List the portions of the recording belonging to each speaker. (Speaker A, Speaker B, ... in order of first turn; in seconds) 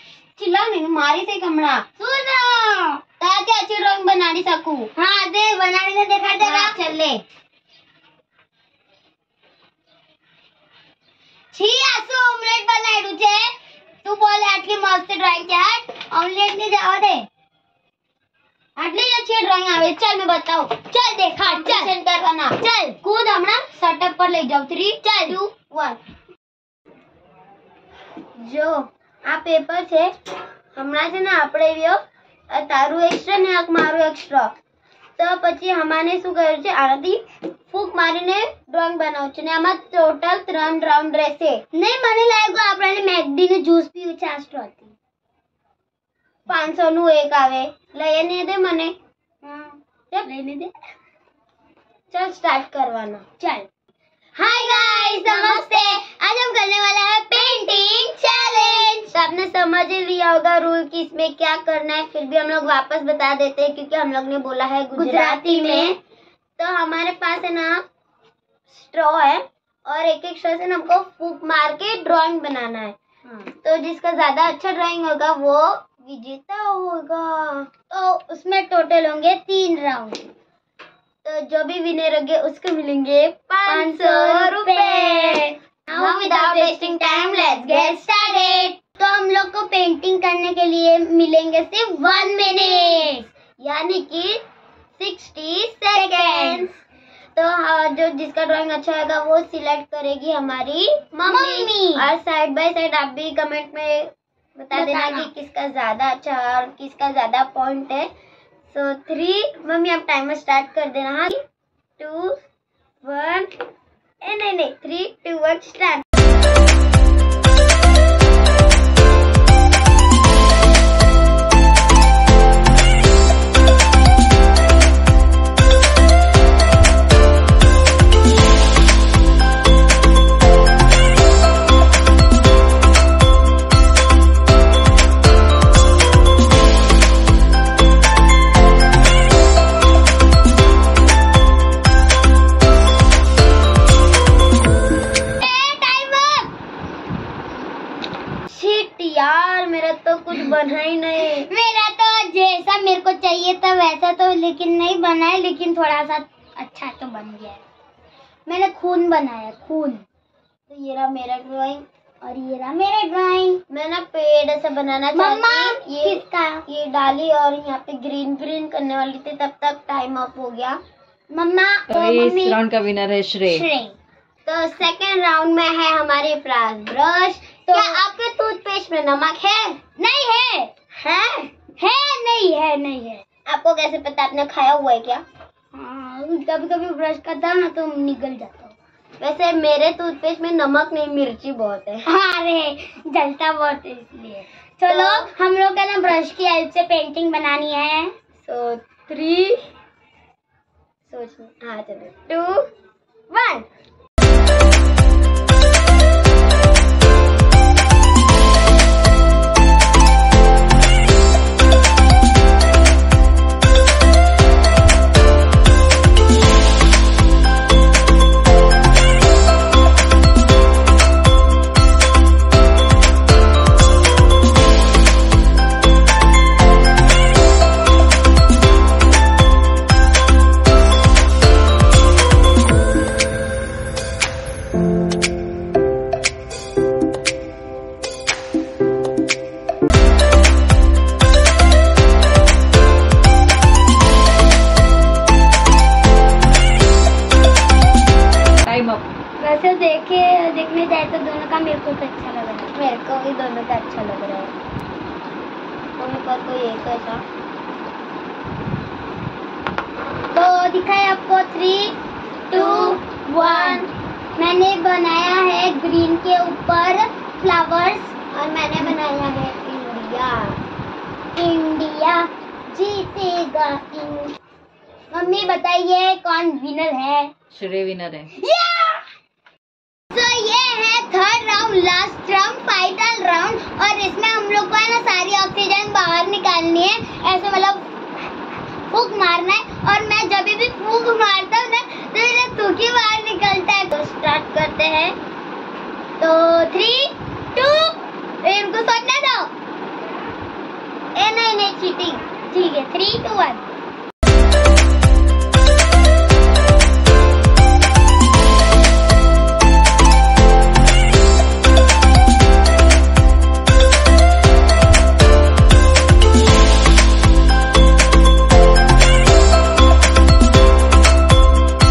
Speaker A: 0.4-1.8, 3.2-4.9, 6.4-7.2, 18.8-20.8, 21.4-26.0, 28.4-30.1, 30.7-34.5, 35.2-41.6, 46.5-48.9, 52.1-53.2, 54.4-56.0, 59.1-66.0, 66.6-67.8, 68.7-73.0, 73.6-77.7, 81.2-88.7, 92.4-94.4, 95.0-96.8, 97.3-108.1, 108.7-111.4, 112.0-112.4, 113.0-113.5, 114.2-116.0, 148.5-151.5, 160.7-161.8, 163.7-170.8, 174.4-179.8, 180.9-181.5, 183.4-185.2, 189.2-192.1, 194.9-195.3, 198.4-199.6, 201.1-202.7, 203.3-203.6, 252.7-254.5, 256.0-257.2, 262.5-263.9, 268.3-270.6, 293.9-295.1, 301.1-302.2
Speaker B: 2.0-3.0, 5.0-6.8, 11.5-13.5, 14.0-17.3, 20.9-21.9, 22.6-23.0, 25.0-25.4, 41.7-44.9, 49.4-50.7, 53.4-53.7, 54.9-59.1, 64.9-66.0, 77.9-80.2, 83.7-93.3, 95.9-96.7, 101.2-102.1, 104.7-105.3, 145.4-146.5, 151.4-157.6, 158.4-160.0, 162.2-163.6, 165.1-166.6, 171.3-172.6, 173.4-173.9, 177.7-178.0, 179.9-180.7, 181.8-183.2, 185.7-188.7, 192.1-198.1, 249.4-252.7, 260.3-261.9, 262.5-268.1, 271.3-274.3, 275.1-277.3, 278.3-279.0, 280.1-287.9, 288.9-293.9, 296.2-299.5, 302.5-303.7
Speaker C: 171.9-173.6, 248.6-249.1, 277.5-278.3